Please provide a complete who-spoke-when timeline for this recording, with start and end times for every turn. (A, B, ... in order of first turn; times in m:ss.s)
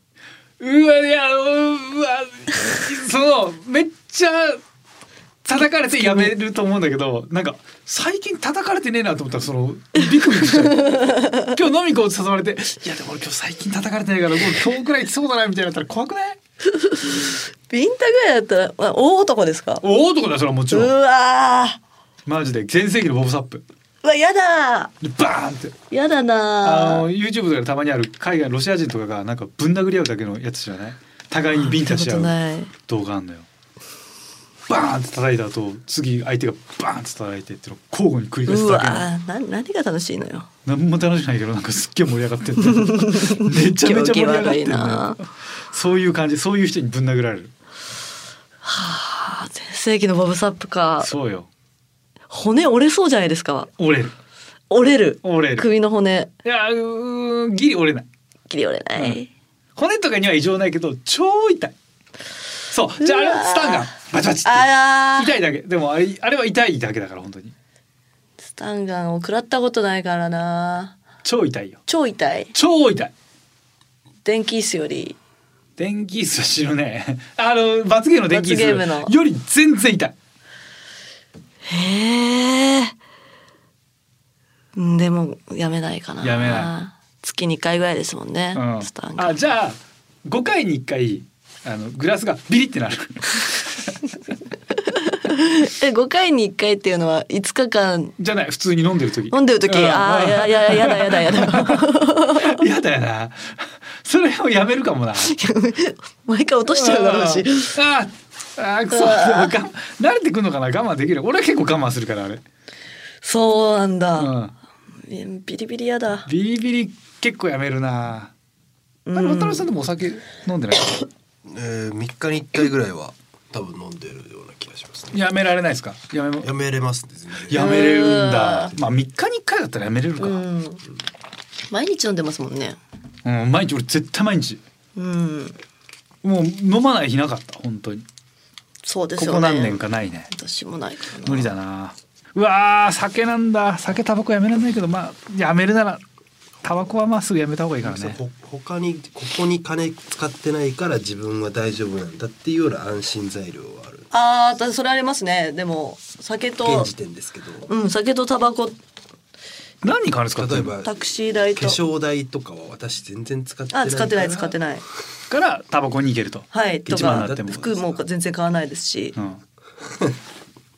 0:00.6-0:04.6 A
0:05.4-0:16.4 A
0:10.3-0:11.5 B
0:16.7-0:19.8 B
0:19.8-0:20.9 A
0:20.7-0:21.8 B
0:22.3-0:23.6 A
0:24.0-0:24.9 B
0:25.0-0:25.8 A
0:25.9-0:27.1 B
0:26.6-0:33.5 A
0:31.6-0:32.7 B
0:34.7-0:39.1 A
0:38.5-0:40.5 B
0:40.6-0:47.5 A
0:42.7-0:45.2 B
0:48.6-0:51.1 B
0:51.0-0:51.5 A
0:52.3-0:53.7 B
0:53.8-0:54.1 A
0:54.7-0:56.3 B
0:55.2-0:55.7 A
0:56.4-0:58.1 A
0:58.5-0:59.3 B
0:59.8-1:01.7 A
1:02.7-1:07.5 A
1:03.0-1:05.3 B
1:08.5-1:11.0 B
1:11.2-1:11.8 A
1:11.9-1:12.5 B
1:12.5-1:13.1 A
1:14.2-1:15.2 B
1:15.8-1:20.2 A
1:18.3-1:19.1 B
1:21.7-1:22.9 B
1:24.8-1:29.4 B
1:26.2-1:26.7 A
1:28.6-1:33.9 A
1:34.8-1:38.2 B
1:38.2-1:45.4 A
1:39.3-1:42.6 B
1:45.2-1:47.8 B
1:46.7-1:52.4 A
1:48.9-1:49.5 B
1:53.2-1:54.3 B
1:54.2-1:54.5 A
1:55.1-1:56.3 B
1:56.3-1:58.3 A
1:59.1-1:59.7 B
1:59.1-2:01.1 A
2:01.4-2:05.2 C
2:05.1-2:06.5 A
2:06.4-2:07.6 C
2:07.5-2:10.4 A
2:07.5-2:08.7 B
2:10.2-2:10.8 B
2:11.7-2:12.8 B
2:13.2-2:14.6 A
2:15.0-2:15.6 B
2:16.2-2:18.1 A
2:18.8-2:21.5 B
2:19.2-2:20.3 A
2:21.2-2:26.0 A
2:26.6-2:28.2 A
2:27.8-2:34.1 C
2:34.1-2:36.9 B
2:36.6-2:37.7 C
2:37.7-2:38.8 B
2:39.8-2:40.7 A
2:40.4-2:40.9 C
2:40.8-2:41.8 B
2:41.6-2:44.5 C
2:43.7-2:44.8 B
2:45.3-2:47.6 A
2:46.5-2:49.2 B
2:46.9-2:48.0 C
2:49.2-2:49.4 A